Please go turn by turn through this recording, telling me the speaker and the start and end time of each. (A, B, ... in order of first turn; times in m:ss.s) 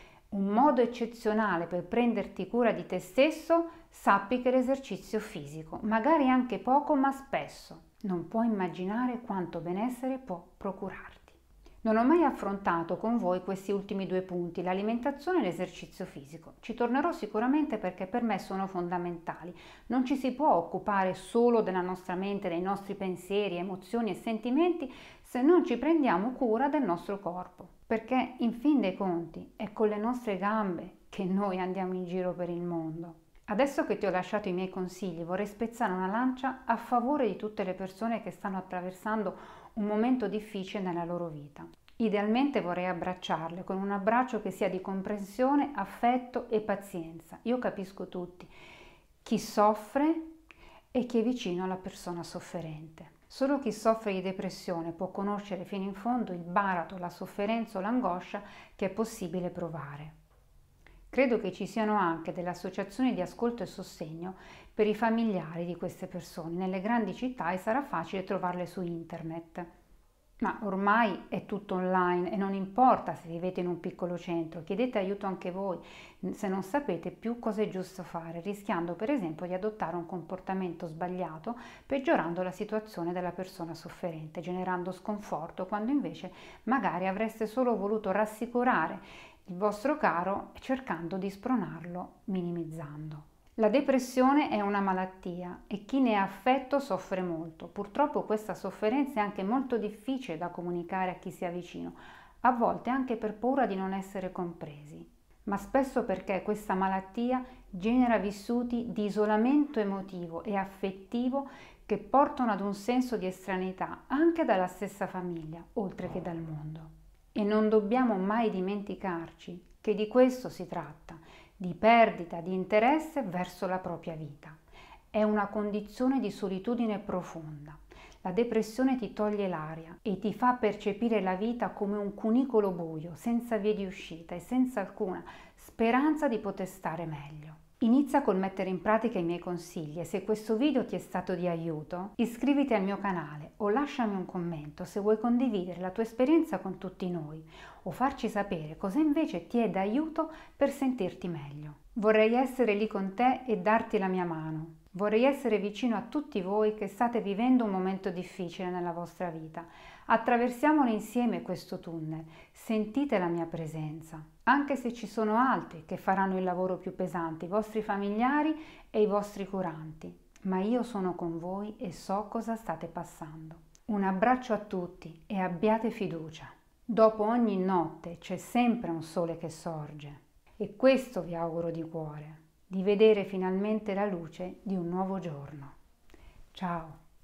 0:00.3-0:48.5 A
0:49.2-0:50.3 A
0:50.9-1:00.2 A
1:01.1-1:09.7 A
1:10.4-2:04.6 A
2:05.1-3:05.8 A
3:06.5-3:07.0 A